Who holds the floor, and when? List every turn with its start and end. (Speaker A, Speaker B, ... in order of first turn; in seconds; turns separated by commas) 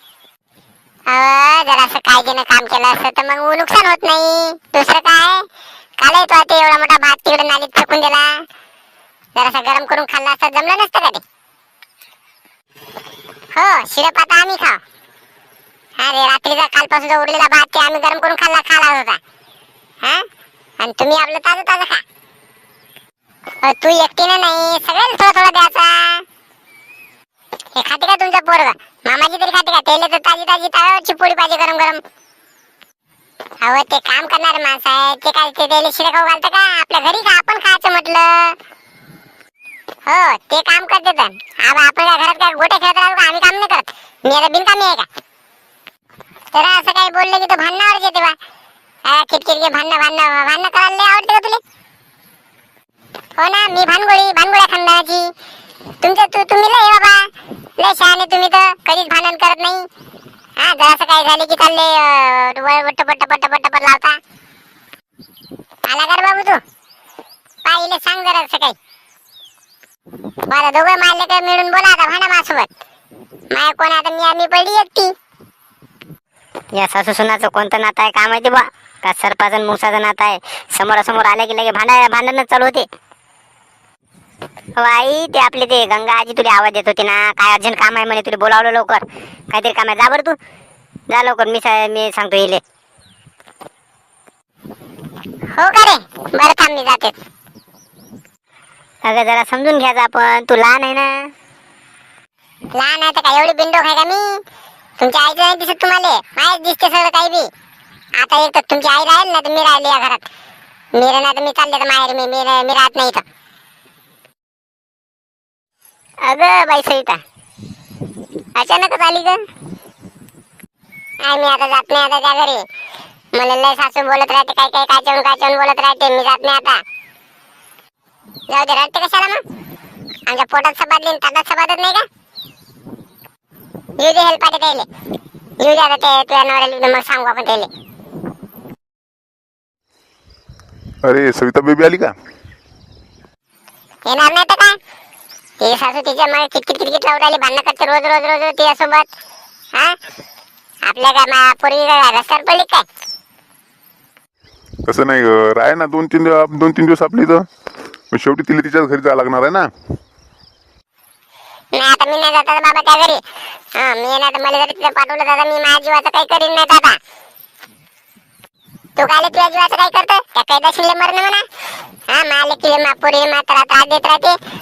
Speaker A: 1.1-5.4, Speaker A: 6.0-8.4, Speaker A: 9.4-11.2, Speaker A: 13.5-14.8, Speaker A: 16.0-19.2, Speaker A: 20.8-22.0, Speaker A: 23.6-26.2, Speaker A: 27.8-32.0, Speaker A: 33.6-38.6, Speaker A: 40.1-45.1, Speaker A: 46.5-48.4, Speaker A: 49.1-51.6, Speaker A: 53.4-55.3, Speaker A: 56.0-59.8, Speaker A: 60.6-64.2, Speaker A: 65.9-66.6, Speaker A: 67.7-68.8, Speaker A: 70.5-72.7, Speaker A: 73.5-75.1, Speaker B: 76.8-82.9, Speaker B: 84.8-90.4, Speaker B: 91.1-92.6, Speaker A: 95.6-97.1, Speaker B: 99.0-101.3, Speaker A: 102.8-104.3, Speaker A: 105.0-107.5, Speaker A: 108.2-110.2, Speaker A: 111.0-113.2, Speaker B: 116.3-117.1, Speaker A: 116.3-117.2, Speaker A: 118.6-119.4, Speaker A: 121.2-122.6, Speaker A: 123.4-126.8, Speaker A: 128.5-129.4, Speaker A: 130.3-132.1, Speaker A: 134.0-134.9, Speaker A: 135.6-137.7, Speaker C: 141.0-142.2, Speaker A: 144.1-144.8, Speaker A: 145.6-149.1, Speaker A: 150.8-152.8, Speaker C: 154.9-157.5, Speaker C: 158.1-159.7, Speaker A: 161.7-163.2, Speaker A: 163.8-167.0, Speaker A: 169.0-171.4, Speaker A: 172.1-174.4